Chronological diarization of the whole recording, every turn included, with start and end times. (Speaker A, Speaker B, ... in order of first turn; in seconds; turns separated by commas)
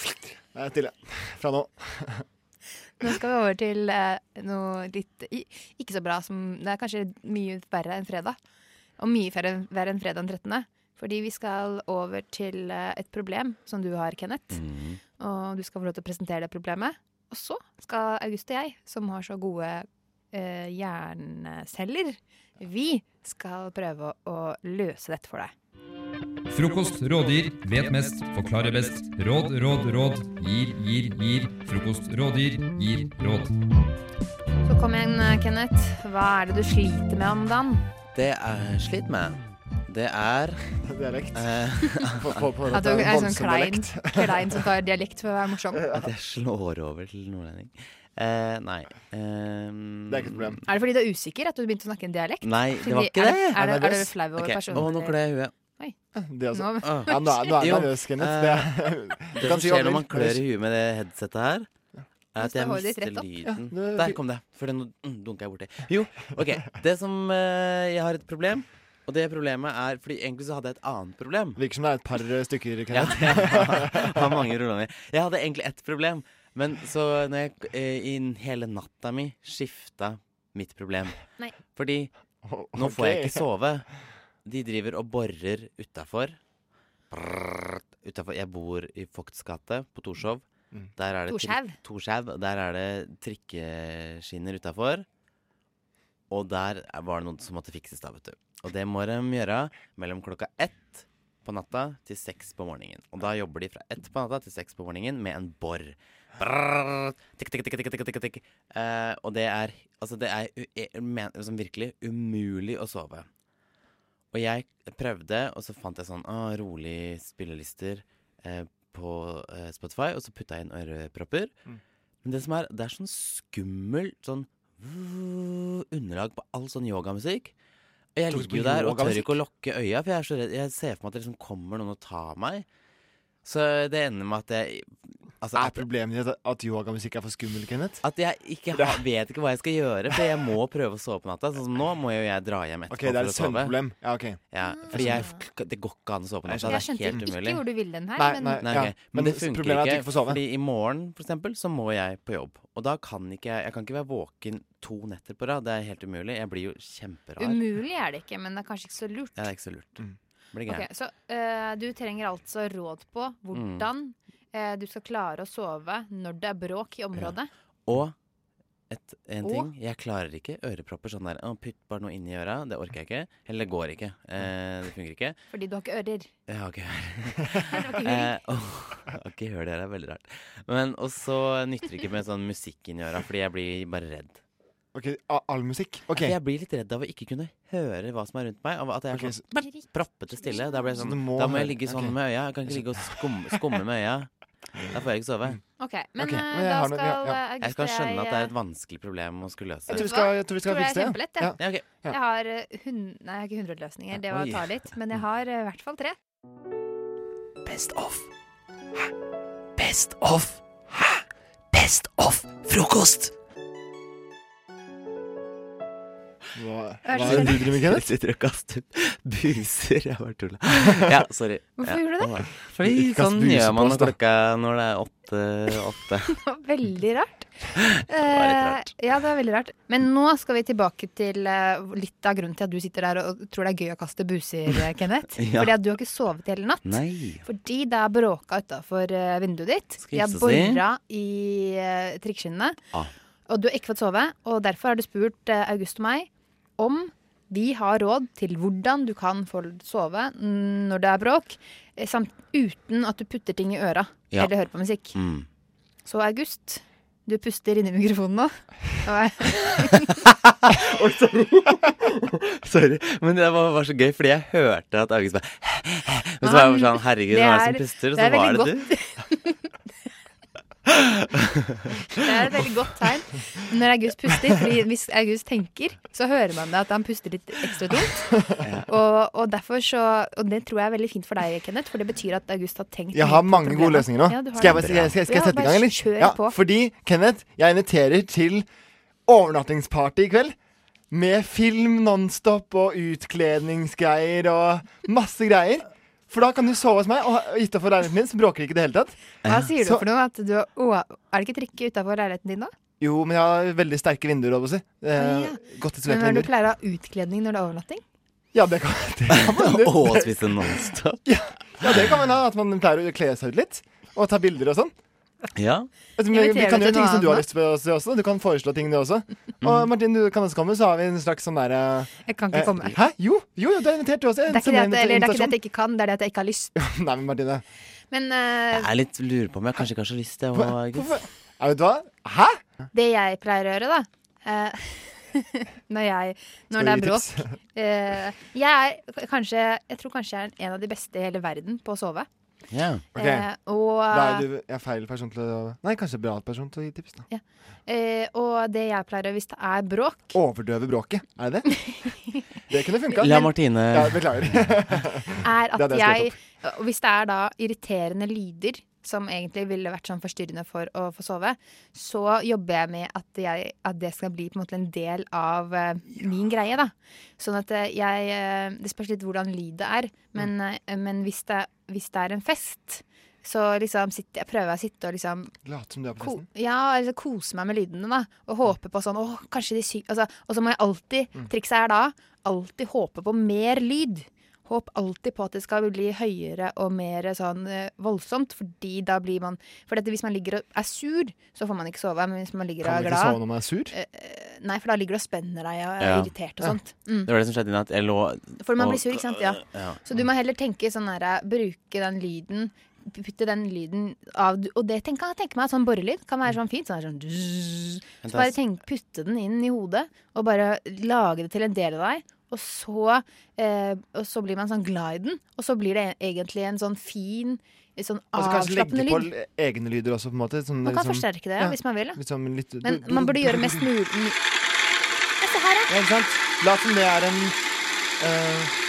Speaker A: 0.5-2.2, Speaker B: 3.0-8.4, Speaker B: 9.0-25.5, Speaker C: 14.5-15.0, Speaker D: 26.5-33.5, Speaker B: 34.6-37.9, Speaker C: 38.1-40.6, Speaker A: 40.9-41.5, Speaker C: 41.3-42.4, Speaker A: 42.1-44.6, Speaker B: 42.7-45.9, Speaker A: 45.8-46.0, Speaker C: 45.9-50.6, Speaker A: 50.1-50.6, Speaker B: 50.7-55.1, Speaker C: 52.4-53.6, Speaker A: 53.5-54.2, Speaker C: 54.3-55.5, Speaker A: 56.1-60.4, Speaker B: 56.5-57.5, Speaker C: 56.8-61.7, Speaker C: 62.4-71.6, Speaker B: 62.4-63.3, Speaker A: 63.5-64.2, Speaker A: 71.6-74.3, Speaker C: 72.9-82.1, Speaker A: 82.4-83.4, Speaker C: 82.7-83.9, Speaker C: 84.4-86.4, Speaker C: 87.1-95.1, Speaker B: 91.3-91.8, Speaker C: 96.3-113.3, Speaker C: 114.3-121.5, Speaker C: 122.2-127.5, Speaker C: 128.1-132.7, Speaker A: 128.3-129.4, Speaker C: 133.4-135.9, Speaker A: 135.6-138.0, Speaker C: 138.0-143.9, Speaker A: 138.7-139.0, Speaker A: 142.9-145.3, Speaker C: 144.5-147.7, Speaker B: 144.6-145.4, Speaker A: 146.5-146.8, Speaker B: 146.6-148.7, Speaker A: 148.2-150.4, Speaker C: 148.6-157.6, Speaker B: 157.4-159.4, Speaker C: 159.3-160.9, Speaker B: 160.7-167.5, Speaker C: 163.5-163.9, Speaker C: 167.1-168.1, Speaker C: 168.9-175.4, Speaker B: 169.4-169.7, Speaker B: 175.5-176.3, Speaker C: 176.5-184.4, Speaker B: 177.7-178.4, Speaker A: 184.9-186.3, Speaker C: 186.1-194.3, Speaker A: 189.1-189.5, Speaker B: 189.6-190.9, Speaker A: 191.0-192.1, Speaker A: 192.7-193.2, Speaker C: 194.9-195.6, Speaker B: 195.8-198.5, Speaker A: 196.2-197.4, Speaker C: 197.5-200.1, Speaker B: 199.9-206.2, Speaker A: 199.9-202.2, Speaker C: 201.6-201.9, Speaker C: 204.1-205.2, Speaker E: 207.7-208.3, Speaker E: 209.8-210.6, Speaker E: 211.7-213.3, Speaker A: 216.6-218.0, Speaker B: 217.1-217.7, Speaker C: 217.1-226.4, Speaker B: 221.8-222.4, Speaker A: 222.8-224.1, Speaker B: 226.3-227.5, Speaker C: 227.7-228.9, Speaker B: 228.1-242.8, Speaker C: 235.4-235.8, Speaker C: 236.8-237.5, Speaker C: 240.0-240.8, Speaker B: 243.5-255.2, Speaker C: 254.3-254.6, Speaker C: 255.1-255.5, Speaker B: 256.1-260.2, Speaker C: 259.5-268.9, Speaker B: 266.4-269.6, Speaker C: 270.9-271.4, Speaker C: 271.9-272.7, Speaker B: 272.2-278.3, Speaker C: 278.6-279.0, Speaker B: 278.9-286.6, Speaker A: 283.1-288.7, Speaker C: 284.6-285.2, Speaker A: 289.2-290.6, Speaker A: 291.1-299.2, Speaker C: 299.4-299.7, Speaker B: 299.4-302.7, Speaker A: 299.8-300.0, Speaker A: 303.0-306.5, Speaker B: 305.2-308.0, Speaker A: 308.5-314.9, Speaker C: 309.3-311.2, Speaker C: 311.8-312.2, Speaker C: 315.5-315.9, Speaker A: 316.2-325.6, Speaker B: 316.3-317.4, Speaker C: 319.6-319.9, Speaker B: 322.2-323.0, Speaker B: 324.5-326.7, Speaker A: 326.8-327.6, Speaker B: 328.1-328.9, Speaker C: 328.7-331.2, Speaker A: 330.5-332.9, Speaker B: 332.9-342.3, Speaker A: 336.7-337.6, Speaker C: 342.7-343.1, Speaker B: 343.1-344.5, Speaker A: 343.1-343.5, Speaker A: 344.1-347.2, Speaker B: 347.3-350.4, Speaker A: 350.3-351.7, Speaker B: 351.7-352.5, Speaker A: 352.7-356.3, Speaker C: 353.1-354.5, Speaker B: 355.4-375.5, Speaker A: 375.6-376.5, Speaker B: 376.2-397.3, Speaker A: 392.8-393.9, Speaker C: 396.0-396.4, Speaker C: 397.2-400.1, Speaker B: 398.6-419.3, Speaker C: 408.2-408.6, Speaker A: 418.4-423.9, Speaker B: 420.8-422.2, Speaker B: 422.8-424.4, Speaker B: 425.4-425.9, Speaker A: 425.9-427.6, Speaker A: 428.2-428.8